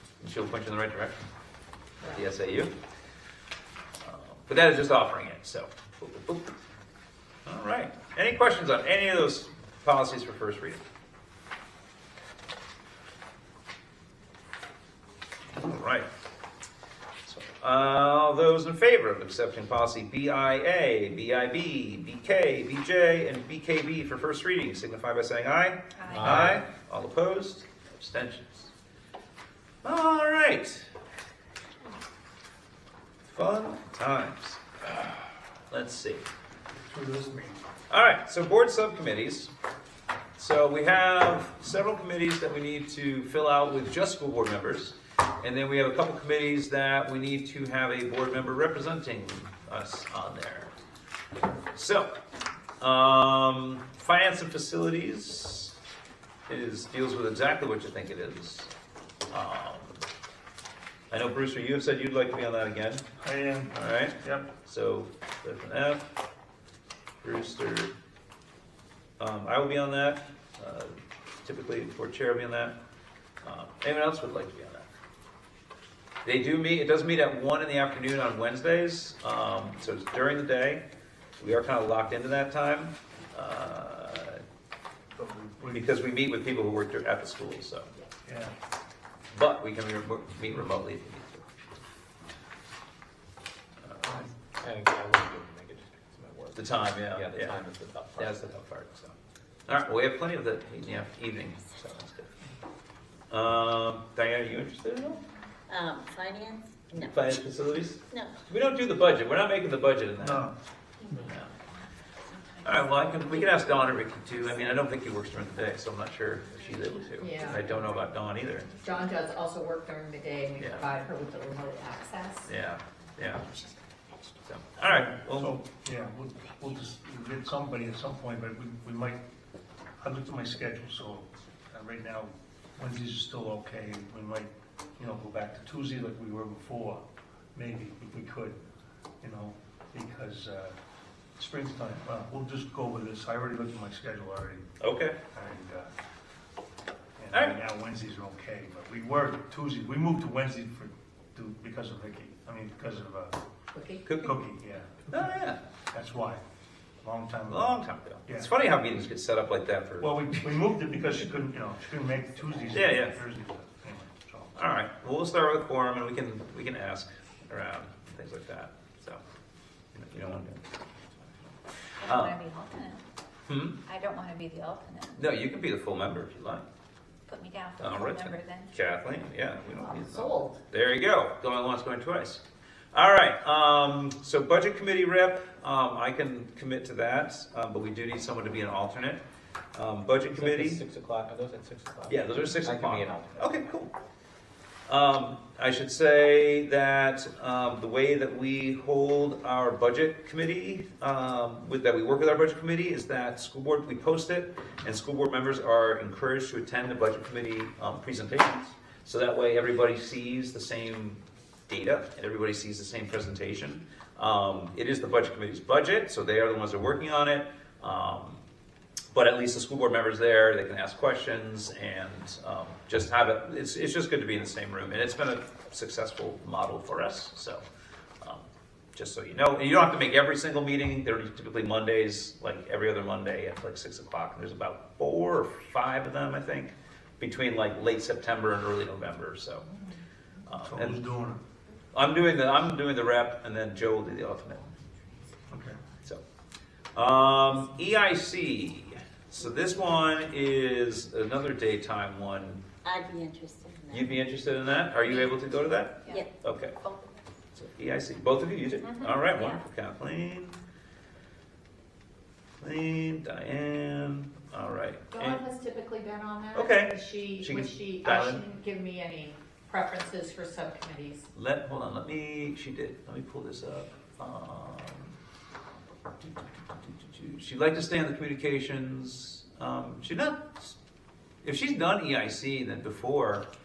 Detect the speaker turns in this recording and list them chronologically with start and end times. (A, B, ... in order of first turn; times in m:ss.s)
0:00.2-0:01.2 A
0:02.0-0:02.7 A
0:04.0-0:06.6 A
0:07.4-0:10.8 A
0:15.5-0:16.1 A
0:17.3-0:28.7 A
0:26.0-0:26.4 B
0:26.1-0:26.6 C
0:29.8-0:30.9 A
0:33.2-0:35.0 A
0:35.7-0:36.2 A
0:36.8-0:37.6 D
0:37.9-0:39.5 A
0:40.4-0:50.7 A
0:51.7-0:52.1 A
0:52.8-0:55.8 A
0:56.5-0:58.7 A
0:59.3-1:00.0 A
1:01.1-1:03.0 A
1:03.2-1:04.5 D
1:03.7-1:06.1 A
1:07.2-1:07.9 A
1:09.2-1:12.8 A
1:13.4-1:14.9 A
1:16.2-1:20.8 A
1:21.4-1:24.4 A
1:25.2-1:25.9 D
1:25.6-1:27.9 A
1:28.2-1:28.5 D
1:29.3-1:31.4 A
1:33.8-1:34.3 A
1:34.6-1:38.4 C
1:36.5-1:37.6 A
1:38.2-1:39.1 A
1:39.7-1:42.3 A
1:43.3-1:45.2 A
1:45.7-1:47.1 E
1:47.0-1:50.5 A
1:50.2-1:50.5 D
1:51.0-1:51.3 B
1:51.1-1:51.5 A
1:52.3-1:54.2 B
1:52.6-1:58.7 A
1:57.2-1:57.8 F
1:58.8-2:02.5 F
2:00.6-2:00.9 A
2:02.4-2:03.5 A
2:04.4-2:05.6 A
2:04.8-2:09.2 D
2:10.0-2:17.0 D
2:17.5-2:18.6 D
2:19.2-2:20.7 D
2:21.4-2:24.6 D
2:24.8-2:25.2 A
2:25.3-2:25.9 D
2:27.2-2:33.4 D
2:27.3-2:27.6 A
2:33.7-2:34.0 F
2:34.0-2:34.4 A
2:34.2-2:35.3 D
2:35.1-2:35.6 A
2:35.9-2:36.4 D
2:37.0-2:38.5 D
2:37.5-2:40.1 A
2:40.0-2:44.6 D
2:42.7-2:43.2 A
2:44.6-2:49.2 A
2:49.9-2:50.8 A
2:52.0-2:53.0 B
2:52.0-2:52.4 A
2:53.5-2:53.8 A
2:53.8-2:55.2 B
2:55.1-2:56.6 A
2:57.3-2:58.7 B
2:57.8-3:09.2 A
2:59.8-3:00.6 F
3:09.7-3:10.8 A
3:10.3-3:13.6 C
3:12.1-3:13.9 A
3:14.9-3:38.4 A
3:39.1-3:47.6 A
3:48.9-3:59.7 A
4:00.5-4:01.0 A
4:00.6-4:01.4 D
4:01.9-4:04.6 A
4:05.5-4:05.8 D
4:06.9-4:12.6 A
4:12.8-4:14.2 E
4:13.9-4:16.8 A
4:16.0-4:17.2 B
4:17.5-4:20.6 A
4:22.6-4:25.4 A
4:25.1-4:31.3 F
4:26.5-4:28.4 A
4:31.3-4:35.2 A
4:36.2-4:40.7 A
4:41.4-4:43.4 A